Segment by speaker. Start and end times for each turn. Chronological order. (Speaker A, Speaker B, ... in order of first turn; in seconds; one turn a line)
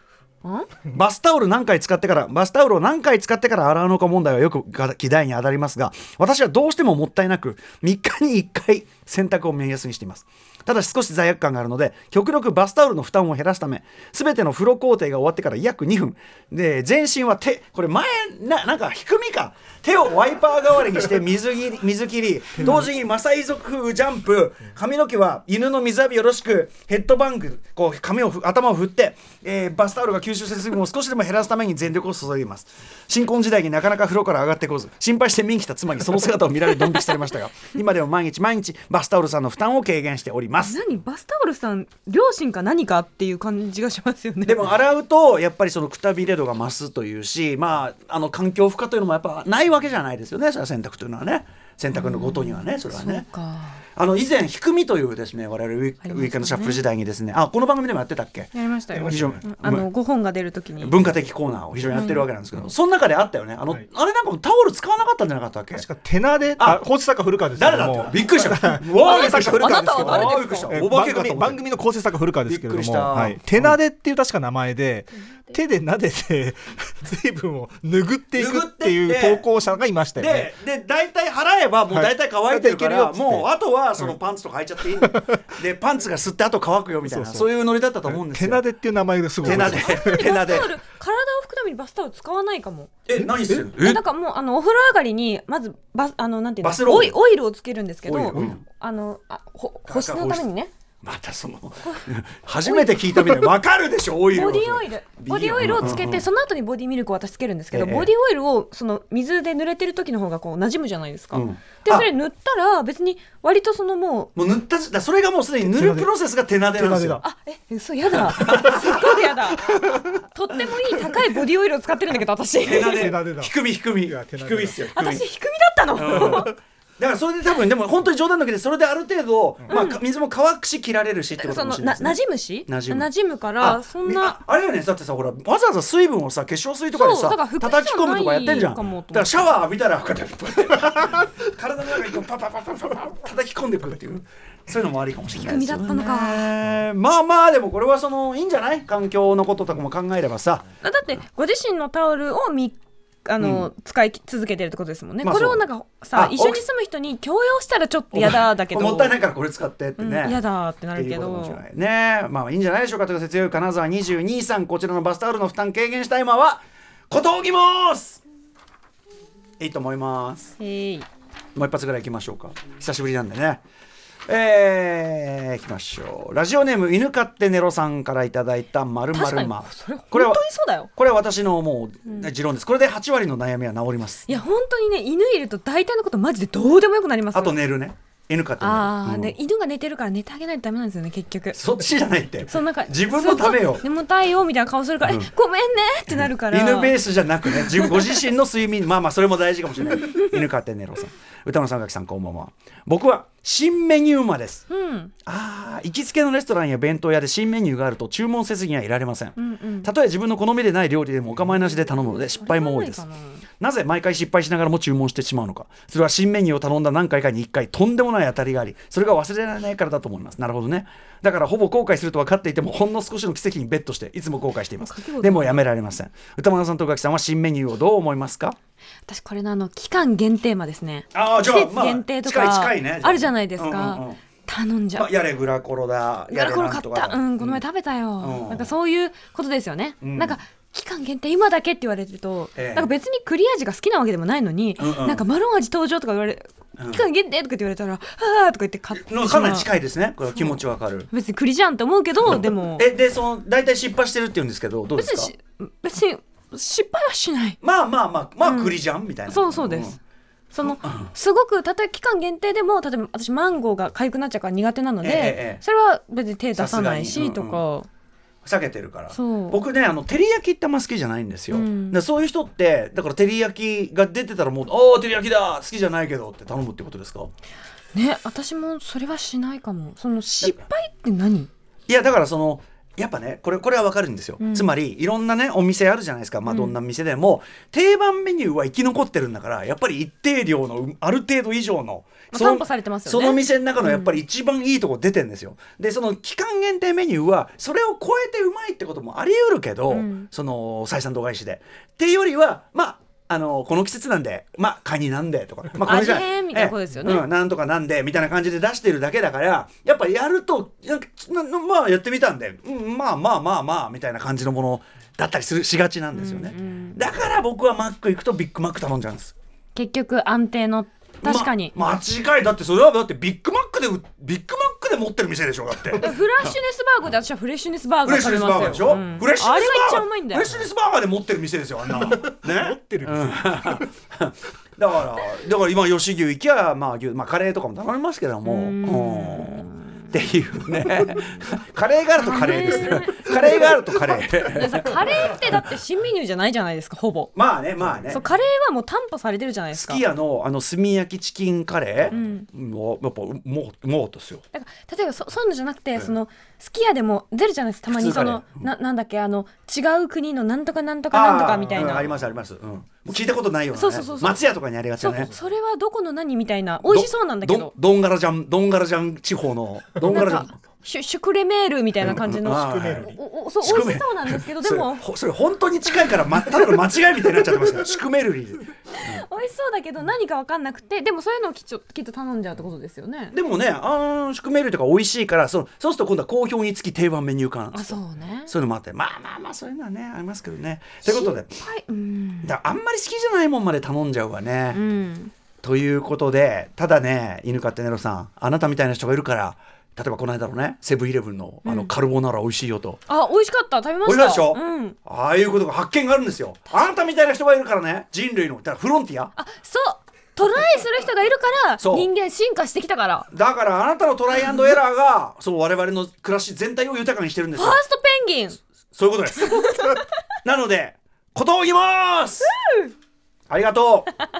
Speaker A: 0.4-0.7
Speaker B: 0.8-40.8
Speaker C: 22.6-22.9
Speaker A: 40.6-44.6
Speaker B: 44.4-53.3
Speaker A: 51.9-53.8
Speaker B: 54.0-59.9
Speaker A: 56.0-56.8
Speaker A: 58.5-61.0
Speaker C: 58.9-59.4
Speaker B: 60.8-65.9
Speaker A: 61.9-62.2
Speaker C: 65.7-80.5
Speaker B: 66.6-66.8
Speaker B: 67.5-71.7
Speaker A: 69.0-70.7
Speaker B: 72.5-73.8
Speaker B: 78.3-79.5
Speaker B: 80.2-88.6
Speaker C: 81.9-83.5
Speaker C: 85.0-85.3
Speaker C: 87.0-87.5
Speaker C: 88.1-90.2
Speaker B: 89.4-90.7
Speaker A: 89.5-92.9
Speaker B: 93.0-94.0
Speaker C: 93.3-93.6
Speaker A: 93.8-100.7
Speaker B: 96.6-97.2
Speaker B: 98.0-98.6
Speaker B: 99.8-100.5
Speaker B: 101.0-106.2
Speaker A: 102.6-103.5
Speaker A: 104.3-114.3
Speaker B: 107.7-108.1
Speaker B: 111.3-112.1
Speaker B: 114.3-117.2
Speaker C: 115.6-116.1
Speaker C: 116.7-117.2
Speaker A: 117.2-123.1
Speaker B: 118.2-119.9
Speaker C: 119.7-120.0
Speaker B: 122.6-125.2
Speaker C: 122.9-124.9
Speaker A: 124.9-126.5
Speaker B: 126.0-133.1
Speaker C: 126.1-126.5
Speaker A: 129.7-130.0
Speaker A: 131.4-134.4
Speaker B: 133.6-150.6
Speaker A: 136.9-139.4
Speaker A: 145.4-146.5
Speaker A: 150.8-159.2
Speaker B: 153.4-153.7
Speaker B: 155.2-156.6
Speaker B: 158.1-160.4
Speaker A: 160.0-161.6
Speaker B: 160.9-168.2
Speaker B: 169.6-170.5
Speaker A: 170.6-171.1
Speaker B: 171.5-173.6
Speaker B: 174.3-180.4
Speaker A: 179.1-180.9
Speaker B: 180.9-184.4
Speaker A: 184.3-187.6
Speaker B: 187.3-189.3
Speaker A: 188.6-191.6
Speaker B: 191.5-193.8
Speaker A: 192.5-198.2
Speaker B: 195.0-195.3
Speaker B: 196.0-204.6
Speaker A: 204.7-205.1
Speaker B: 205.2-213.0
Speaker A: 209.4-209.9
Speaker A: 211.6-213.4
Speaker B: 213.6-228.6
Speaker A: 224.8-225.7
Speaker A: 229.1-235.1
Speaker B: 231.1-234.2
Speaker B: 234.9-237.6
Speaker A: 236.3-249.7
Speaker B: 238.2-238.7
Speaker B: 240.0-240.4
Speaker B: 242.5-242.9
Speaker B: 244.8-245.2
Speaker B: 246.8-247.0
Speaker B: 248.9-251.1
Speaker A: 250.2-252.9
Speaker B: 252.2-255.3
Speaker A: 254.9-257.6
Speaker B: 257.6-260.0
Speaker A: 258.4-260.0
Speaker A: 260.5-267.9
Speaker B: 260.6-261.1
Speaker B: 265.0-265.6
Speaker B: 266.6-267.6
Speaker B: 268.4-277.3
Speaker A: 269.1-269.6
Speaker A: 271.5-272.0
Speaker A: 277.9-281.5
Speaker B: 281.9-319.3
Speaker A: 284.4-284.7
Speaker A: 286.4-286.7
Speaker A: 292.3-294.2
Speaker A: 299.9-300.3
Speaker A: 305.8-307.3
Speaker A: 316.1-317.0
Speaker A: 319.7-321.7
Speaker B: 321.2-326.6
Speaker A: 326.0-330.6
Speaker B: 328.0-345.5
Speaker C: 331.9-333.9
Speaker A: 338.4-340.0
Speaker A: 342.2-343.7
Speaker A: 344.4-347.3
Speaker B: 347.3-348.2
Speaker A: 348.1-350.0
Speaker B: 349.7-354.4
Speaker A: 352.1-352.5
Speaker A: 354.5-362.1
Speaker B: 357.9-358.7
Speaker B: 361.1-365.3
Speaker A: 363.7-364.5
Speaker A: 365.0-367.7
Speaker B: 366.8-370.5
Speaker A: 370.0-375.0
Speaker B: 372.0-373.1
Speaker C: 372.5-373.2
Speaker B: 373.6-379.2
Speaker A: 378.9-383.3
Speaker B: 383.3-391.6
Speaker A: 387.7-388.5
Speaker A: 391.0-392.6
Speaker B: 392.4-394.8
Speaker A: 394.7-395.3
Speaker B: 395.6-403.0
Speaker A: 401.6-401.9
Speaker A: 403.1-405.0
Speaker B: 404.0-409.3
Speaker A: 409.3-413.3
Speaker B: 411.8-412.1
Speaker B: 413.3-417.8
Speaker A: 417.6-418.6
Speaker B: 418.9-422.5
Speaker A: 419.4-420.1
Speaker A: 422.4-422.9
Speaker B: 423.5-424.1